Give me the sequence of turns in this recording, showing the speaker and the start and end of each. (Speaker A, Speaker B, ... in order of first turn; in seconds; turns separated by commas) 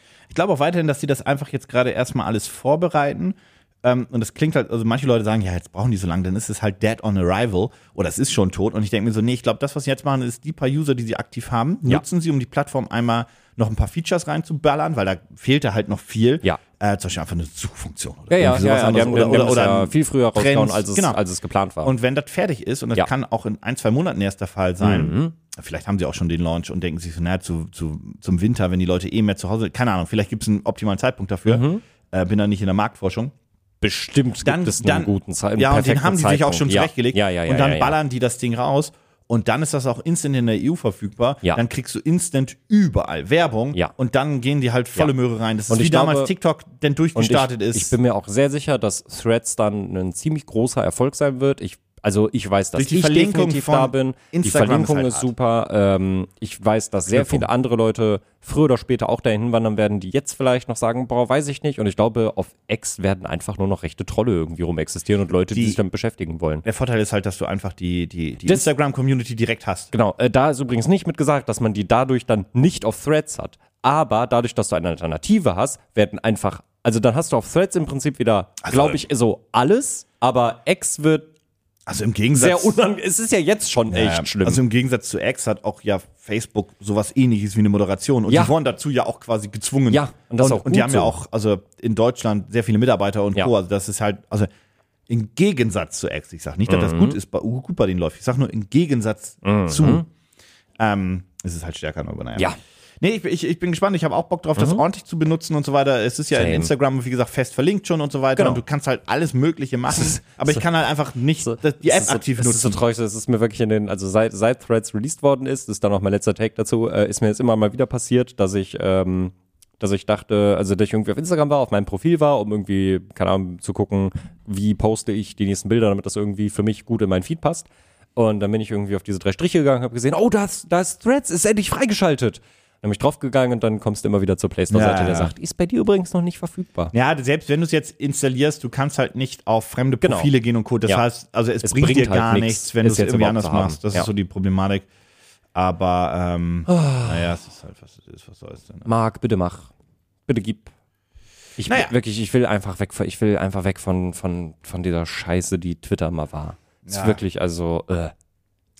Speaker A: 0.3-21.2, Speaker B: 18.3-21.9, Speaker A: 21.8-33.3, Speaker B: 24.8-25.3, Speaker B: 31.5-31.8, Speaker B: 33.8-38.0, Speaker A: 34.4-48.0, Speaker B: 45.7-46.3, Speaker B: 47.2-66.6, Speaker A: 52.8-55.3, Speaker A: 57.1-57.5, Speaker A: 65.5-65.8, Speaker A: 66.7-69.9, Speaker B: 69.9-81.3, Speaker A: 78.6-79.0, Speaker A: 81.9-82.8, Speaker B: 82.3-84.6, Speaker A: 83.9-94.5, Speaker B: 89.9-91.1, Speaker A: 95.1-100.1, Speaker B: 96.7-97.2, Speaker B: 99.4-100.0, Speaker A: 100.8-112.8, Speaker B: 104.6-104.8, Speaker B: 106.3-106.7, Speaker B: 108.4-108.6, Speaker B: 109.9-110.6, Speaker B: 111.5-136.9, Speaker A: 134.7-135.3, Speaker A: 136.9-144.9, Speaker B: 140.0-140.3, Speaker B: 141.6-144.1, Speaker A: 145.6-148.9, Speaker B: 146.7-147.3, Speaker B: 148.9-149.7, Speaker B: 150.3-150.7, Speaker B: 151.6-158.1, Speaker A: 151.7-151.9, Speaker A: 156.9-157.2